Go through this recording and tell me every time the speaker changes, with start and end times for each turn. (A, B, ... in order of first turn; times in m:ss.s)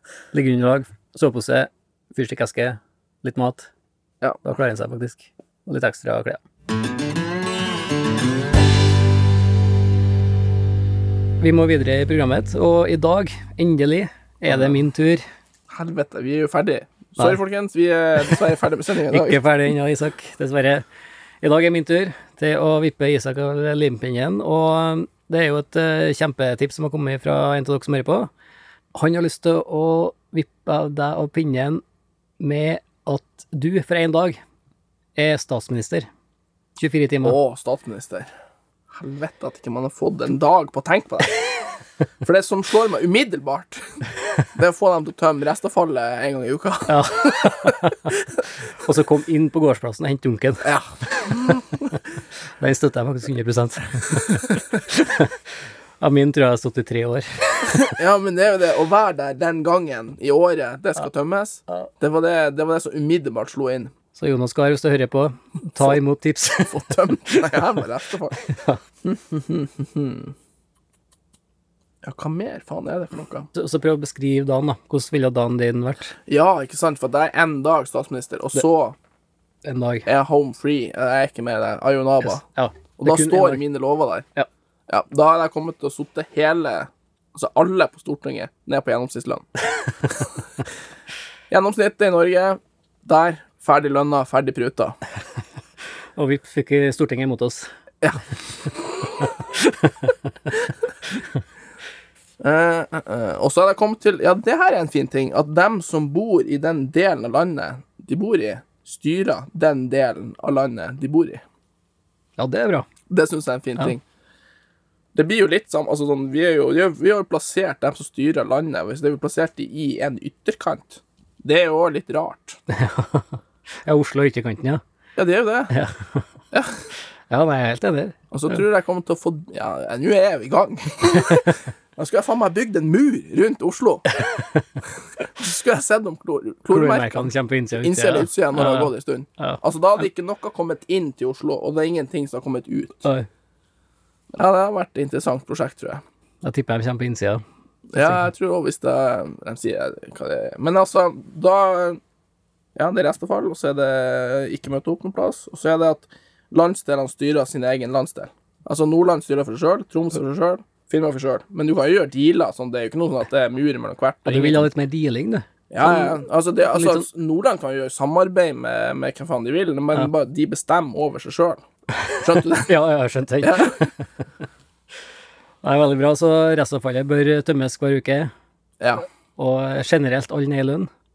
0:00.3-0:03.7 A
0:04.4-0:06.4 A
0:11.4-0:15.2 A
0:14.5-0:14.7 B
0:15.7-0:19.4 B
0:19.1-0:20.8 A
0:21.4-0:28.3 A
0:28.9-0:31.8 A
0:32.4-0:34.4 A
0:35.2-0:36.1 A
0:36.8-0:37.4 A
0:37.2-0:38.3 B
0:38.9-0:41.5 B
0:42.2-0:43.9 B
0:44.5-0:47.7 B
0:46.9-0:48.1 A
0:48.8-0:50.7 A
0:50.6-0:51.6 B
0:52.6-0:55.3 A
0:56.0-0:57.9 A
0:57.9-1:03.9 B
1:04.1-1:07.5 A
1:06.6-1:08.4 B
1:08.4-1:08.8 A
1:12.0-1:13.5 B
1:13.5-1:16.1 A
1:16.3-1:19.0 B
1:19.6-1:20.1 A
1:20.1-1:22.4 B
1:22.2-1:23.6 A
1:23.0-1:24.2 B
1:24.9-1:29.5 B
1:31.5-1:35.0 B
1:36.2-1:37.7 A
1:39.6-1:40.1 A
1:42.4-1:51.4 B
1:52.4-1:52.8 A
1:53.1-1:54.0 B
1:55.1-2:02.6 B
2:02.7-2:04.8 A
2:05.2-2:05.7 B
2:05.7-2:06.2 A
2:06.5-2:06.8 B
2:07.3-2:08.6 A
2:08.3-2:14.0 B
2:15.4-2:23.0 B
2:16.7-2:19.6 A
2:24.3-2:26.0 B
2:26.4-2:27.4 A
2:27.9-2:32.0 B
2:28.0-2:28.2 A
2:32.8-2:44.7 B
2:44.2-2:47.0 A
2:45.7-2:51.6 B
2:52.0-2:54.1 A
2:52.2-2:52.7 B
2:53.4-2:53.8 B
2:55.6-2:58.3 A
2:58.8-2:59.0 B
2:59.4-3:00.9 A